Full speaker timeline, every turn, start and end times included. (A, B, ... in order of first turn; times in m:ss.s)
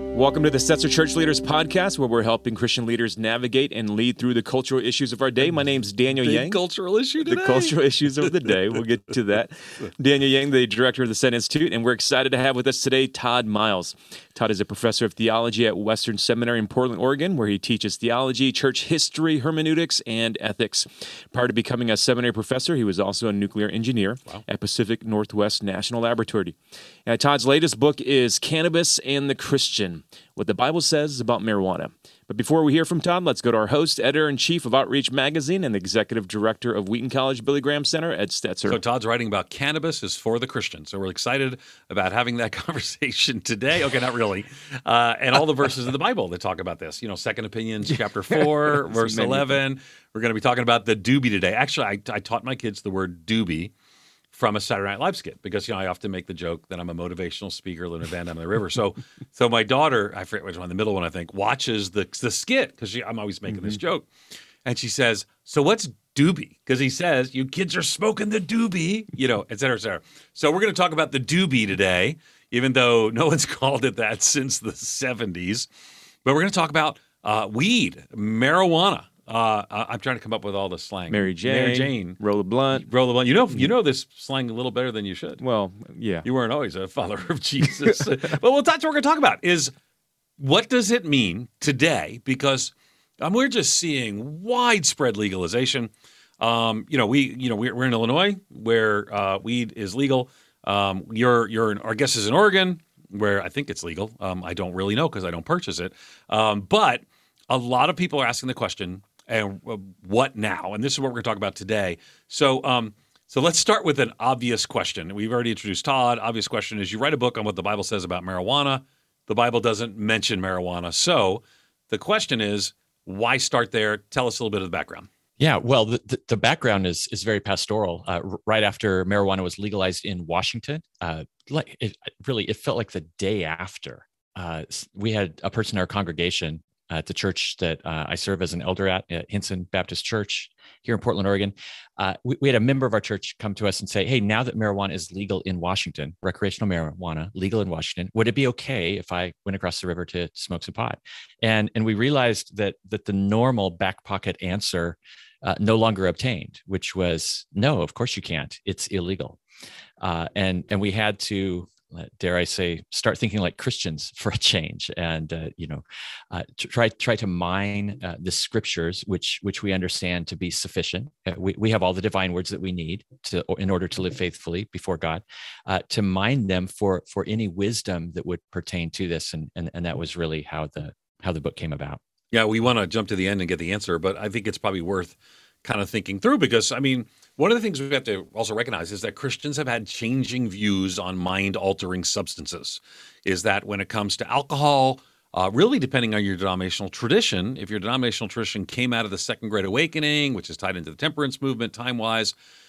0:00.1-0:06.6 A
0:06.1-0:07.8 B
0:07.2-0:38.8 A
0:38.7-0:53.7 B
0:48.3-0:49.6 A
0:54.3-1:04.1 B
1:04.6-1:15.7 B
1:16.2-1:22.2 B
1:21.1-1:22.9 A
1:22.7-1:25.4 B
1:25.4-1:26.3 A
1:26.2-1:29.7 B
1:30.4-2:05.1 B
2:05.4-2:39.4 C
2:40.0-3:02.0 C
3:02.3-3:22.4 B